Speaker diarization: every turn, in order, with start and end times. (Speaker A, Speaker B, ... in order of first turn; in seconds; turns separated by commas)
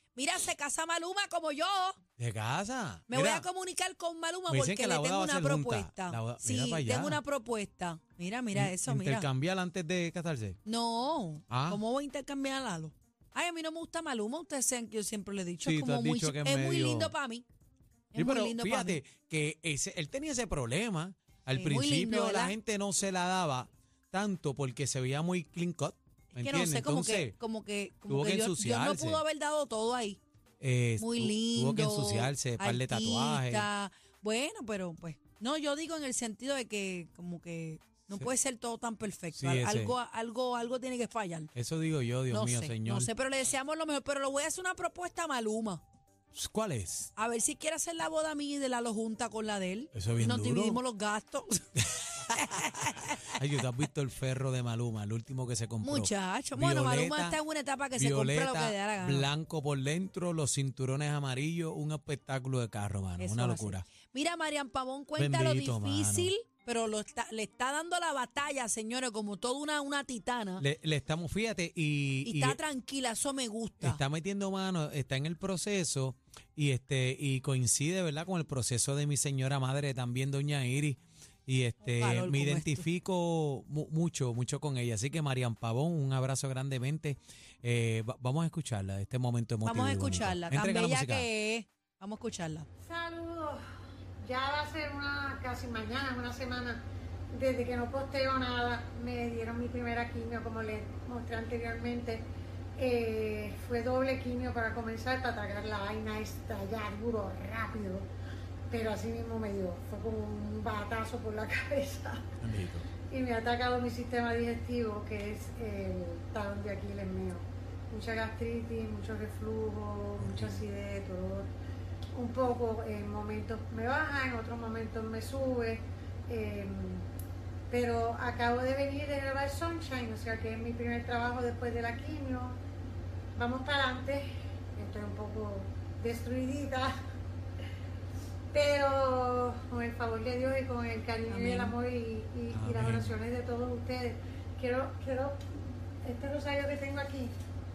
Speaker A: 0.1-2.0, Speaker B: 2.2-3.5, Speaker A: 3.1-9.3, Speaker B: 4.5-7.2, Speaker B: 8.5-10.6, Speaker A: 10.6-17.4, Speaker B: 11.5-11.8, Speaker B: 15.6-17.1, Speaker A: 18.1-19.0, Speaker B: 18.1-27.4, Speaker A: 21.5-22.5, Speaker A: 26.3-30.2, Speaker B: 28.1-29.2, Speaker B: 30.6-33.7, Speaker A: 31.0-41.5, Speaker B: 39.3-39.9, Speaker B: 41.5-43.1, Speaker A: 42.3-45.8, Speaker B: 46.3-47.1, Speaker A: 47.1-53.3, Speaker B: 49.9-50.8, Speaker B: 53.3-57.4, Speaker A: 55.8-59.3, Speaker B: 58.0-63.8, Speaker A: 63.2-70.6, Speaker B: 65.2-66.3, Speaker B: 70.6-72.6, Speaker A: 72.2-74.0, Speaker B: 73.8-91.3, Speaker A: 81.8-82.9, Speaker A: 89.6-92.7, Speaker C: 92.8-93.6, Speaker C: 94.2-102.2, Speaker C: 102.8-108.1, Speaker C: 108.7-112.2, Speaker B: 112.4-112.8, Speaker C: 113.1-121.5, Speaker B: 120.2-120.6, Speaker C: 122.1-127.1, Speaker C: 127.7-132.6, Speaker C: 133.3-136.9, Speaker C: 138.5-147.3, Speaker A: 141.3-141.8, Speaker B: 142.5-143.1